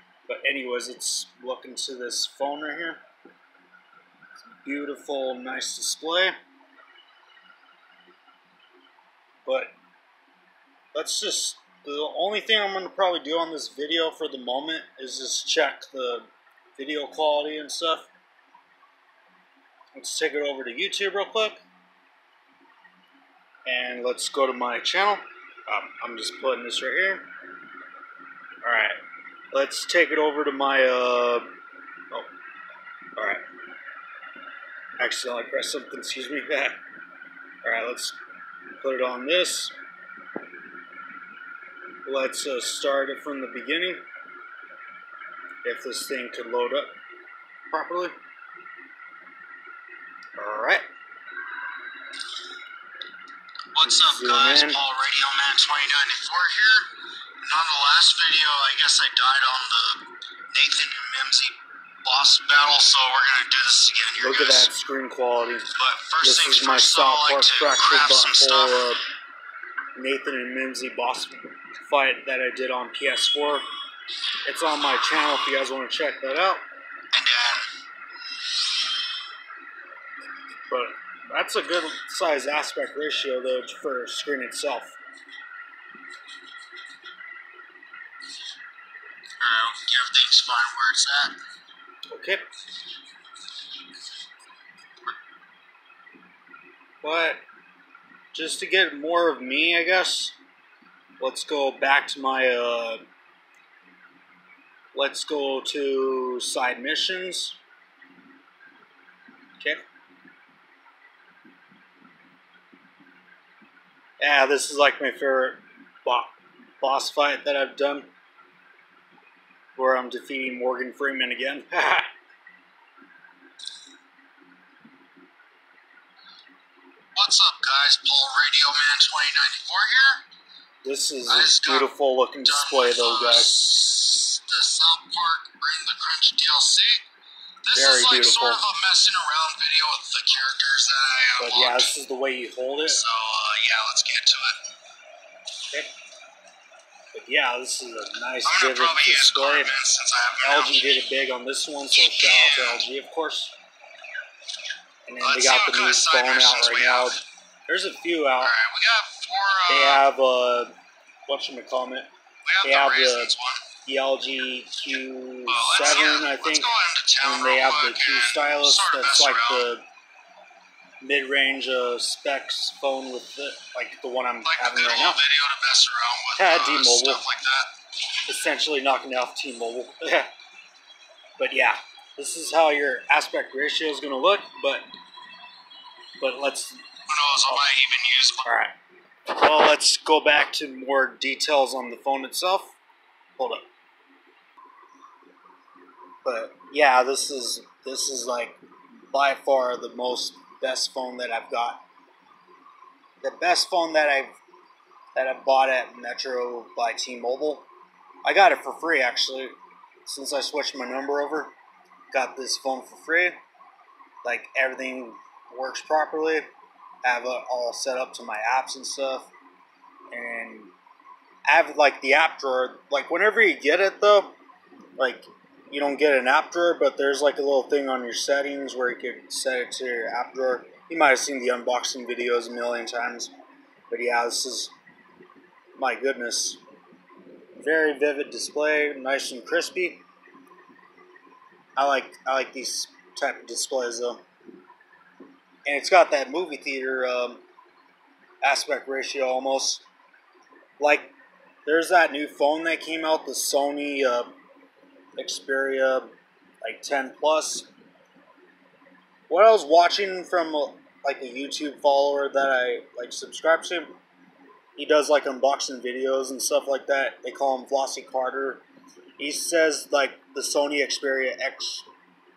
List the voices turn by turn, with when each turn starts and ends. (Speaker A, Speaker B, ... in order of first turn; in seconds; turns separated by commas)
Speaker A: 0.3-3.0, Speaker A: 4.4-6.3, Speaker A: 9.4-9.7, Speaker A: 10.9-18.1, Speaker A: 19.9-21.6, Speaker A: 23.7-27.3, Speaker A: 28.6-29.0, Speaker A: 29.5-31.5, Speaker A: 33.2-33.4, Speaker A: 35.0-36.8, Speaker A: 37.6-38.2, Speaker A: 38.8-39.8, Speaker A: 42.0-44.0, Speaker A: 45.6-47.0, Speaker A: 47.7-48.1, Speaker A: 50.4-50.9, Speaker B: 53.7-56.9, Speaker A: 53.8-54.8, Speaker B: 57.4-64.7, Speaker A: 64.2-69.0, Speaker B: 65.8-68.9, Speaker A: 70.0-73.7, Speaker A: 74.5-76.6, Speaker B: 77.1-77.7, Speaker A: 80.7-85.0, Speaker B: 89.4-91.3, Speaker A: 92.1-92.5, Speaker A: 97.0-97.4, Speaker A: 98.3-100.3, Speaker A: 101.2-103.0, Speaker A: 104.9-107.6, Speaker A: 114.2-118.1, Speaker A: 119.8-122.1, Speaker B: 127.2-130.2, Speaker A: 130.8-133.7, Speaker B: 131.3-131.9, Speaker B: 132.4-137.1, Speaker B: 137.6-141.9, Speaker A: 137.7-138.6, Speaker A: 141.4-143.0, Speaker B: 142.9-144.6, Speaker A: 147.1-149.8, Speaker B: 148.4-151.1, Speaker A: 150.4-153.5, Speaker B: 152.0-152.8, Speaker A: 155.1-158.6, Speaker B: 155.2-157.2, Speaker B: 158.4-160.0, Speaker A: 159.7-160.7, Speaker A: 161.3-162.1, Speaker B: 162.4-163.7, Speaker A: 162.6-169.8, Speaker B: 165.5-169.7, Speaker A: 171.0-175.2, Speaker B: 174.4-177.7, Speaker A: 176.4-177.2, Speaker A: 178.3-180.3, Speaker A: 181.4-184.9, Speaker A: 186.2-187.7, Speaker B: 187.1-188.5, Speaker A: 188.4-188.8, Speaker A: 189.3-192.8, Speaker A: 193.4-193.7, Speaker A: 196.2-201.8, Speaker A: 203.2-204.4, Speaker A: 205.2-207.7, Speaker A: 208.2-211.5, Speaker A: 212.1-213.4, Speaker A: 214.2-216.5, Speaker A: 217.0-219.3, Speaker A: 220.1-220.7, Speaker A: 221.5-224.3, Speaker A: 225.0-233.3, Speaker A: 233.9-234.7, Speaker A: 235.8-236.6, Speaker A: 237.6-240.0, Speaker A: 241.8-244.2, Speaker A: 245.7-247.4, Speaker A: 248.4-249.8, Speaker A: 250.8-251.1, Speaker A: 251.7-254.3, Speaker A: 255.2-256.1, Speaker A: 256.6-257.7, Speaker A: 259.3-263.9, Speaker A: 264.8-268.6, Speaker A: 269.2-271.9